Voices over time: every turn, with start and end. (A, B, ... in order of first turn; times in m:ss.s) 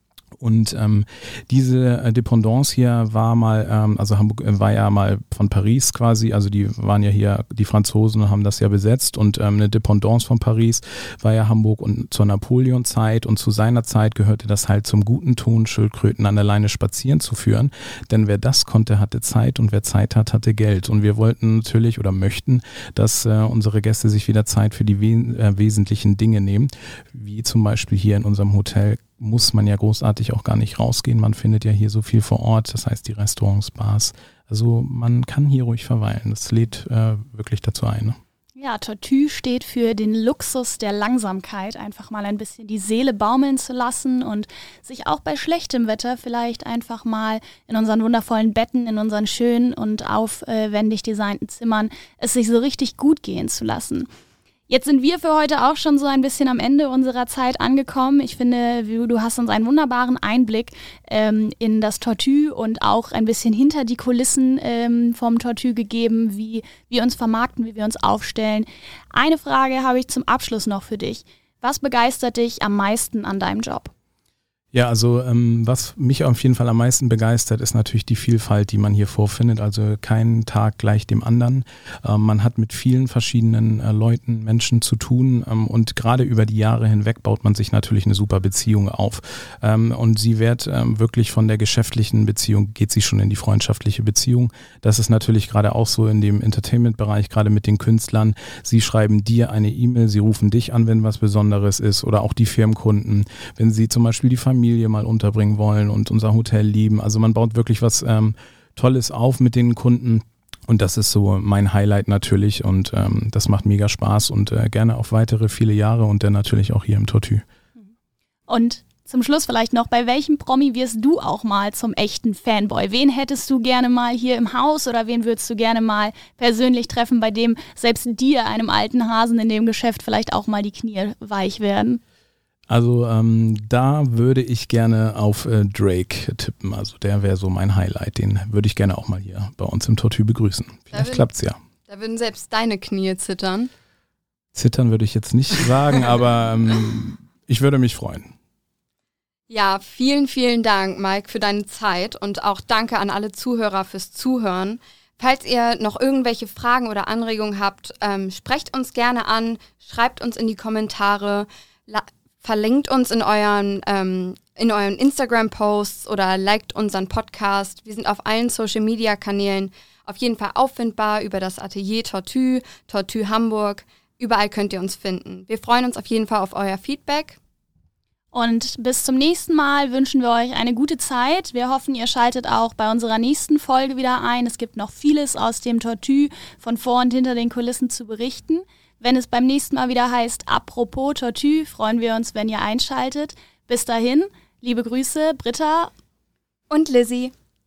0:00.4-0:38.2 A
0:38.6-0:54.1 B
0:54.7-1:13.9 B
1:14.7-1:57.4 A
1:58.5-2:12.0 B
2:12.7-2:21.6 A
2:20.9-2:21.3 C
2:21.9-2:23.7 C
2:24.5-2:28.3 A
2:29.5-2:57.4 C
2:58.3-3:15.9 B
3:16.7-3:17.3 C